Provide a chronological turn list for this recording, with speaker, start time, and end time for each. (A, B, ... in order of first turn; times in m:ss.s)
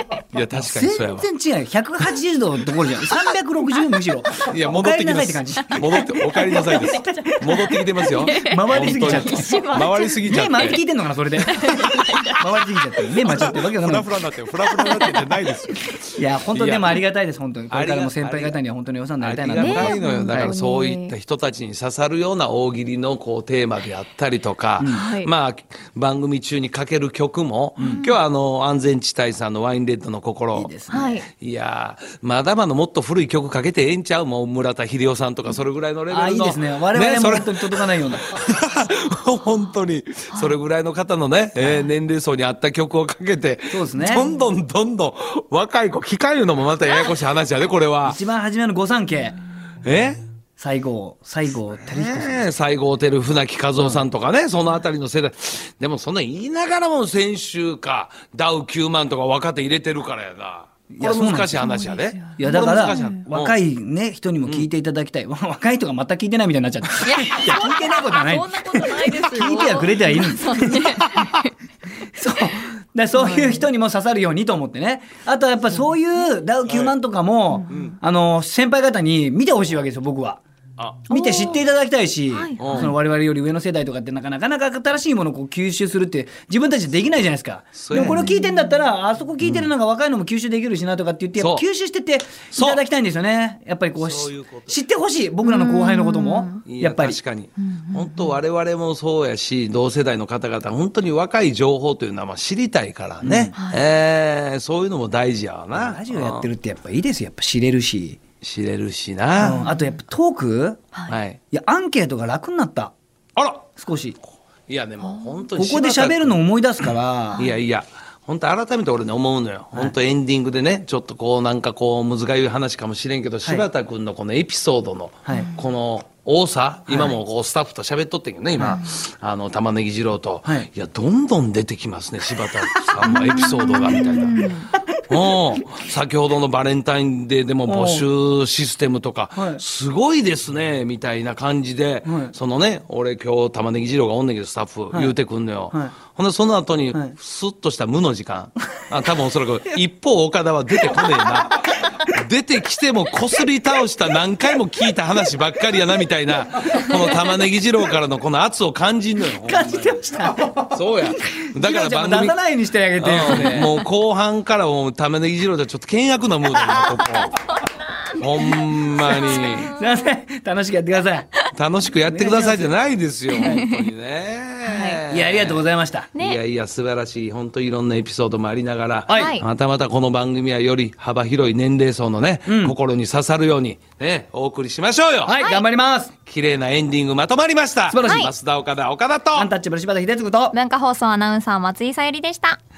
0:00.3-0:01.3 A
0:00.5-0:06.0 B
0:04.4-0:10.8 A
0:06.5-0:10.8 C
0:06.7-0:07.6 B
0:08.4-0:09.7 B
0:10.2-0:14.1 B
0:11.4-0:12.5 C
0:13.2-0:17.0 A
0:14.6-0:15.2 C
0:16.2-0:20.5 B
0:17.7-0:18.6 A
0:19.2-0:30.7 A
0:19.6-0:21.1 C
0:24.8-0:25.3 C
0:27.8-0:28.2 C
0:30.5-0:31.2 B
0:30.9-0:31.3 C
0:31.3-0:48.2 A
0:36.1-0:38.4 B
0:41.6-0:41.8 B
0:43.7-0:44.3 B
0:48.0-0:49.4 B
0:49.8-0:50.2 A
0:50.6-0:52.5 B
0:51.8-1:03.6 A
1:00.9-1:01.6 B
1:01.6-1:03.2 C
1:02.4-1:11.2 B
1:07.0-1:11.5 C
1:12.1-1:20.4 B
1:13.2-1:13.6 C
1:16.7-1:16.9 A
1:17.7-1:17.9 A
1:20.8-1:21.1 A
1:21.1-1:37.2 B
1:21.1-1:21.6 C
1:22.3-1:22.9 C
1:22.6-1:22.9 A
1:27.8-1:28.3 A
1:28.2-1:28.7 C
1:29.4-1:29.7 A
1:31.4-1:31.6 A
1:32.5-1:32.8 A
1:33.9-1:34.8 A
1:35.4-1:36.6 C
1:36.6-1:46.5 A
1:37.6-1:38.3 C
1:43.2-1:43.6 B
1:43.5-1:43.8 C
1:45.7-1:48.2 B
1:48.4-1:49.6 A
1:49.4-1:50.9 B
1:49.6-1:50.0 C
1:51.1-1:51.4 A
1:51.5-1:52.9 B
1:53.4-1:53.7 A
1:53.8-1:54.2 B
1:54.7-2:40.0 A
1:55.0-1:55.4 C
1:55.5-1:57.4 B
2:05.2-2:05.5 B
2:06.9-2:07.2 B
2:08.6-2:08.9 C
2:12.9-2:13.4 B
2:13.2-2:14.7 C
2:17.7-2:18.0 B
2:19.4-2:19.6 B
2:22.0-2:22.3 B
2:39.4-2:40.7 B
2:40.7-2:42.4 A
2:41.3-2:43.8 B
2:43.0-2:47.4 A
2:48.2-2:49.7 A
2:49.0-2:50.1 C
2:49.4-2:51.3 B
2:51.5-3:05.4 A
2:52.0-2:52.7 B
2:53.4-2:53.7 B
2:53.4-2:53.8 C
2:54.6-2:55.0 C
2:55.1-2:56.1 B
2:56.1-2:56.4 C
2:59.1-2:59.4 B
2:59.1-2:59.4 C
3:02.4-3:02.8 B
3:05.2-3:06.1 B
3:05.4-3:05.6 C
3:06.2-3:09.5 A
3:07.9-3:08.3 B
3:08.0-3:08.3 C
3:09.3-3:10.6 B
3:10.5-3:12.6 C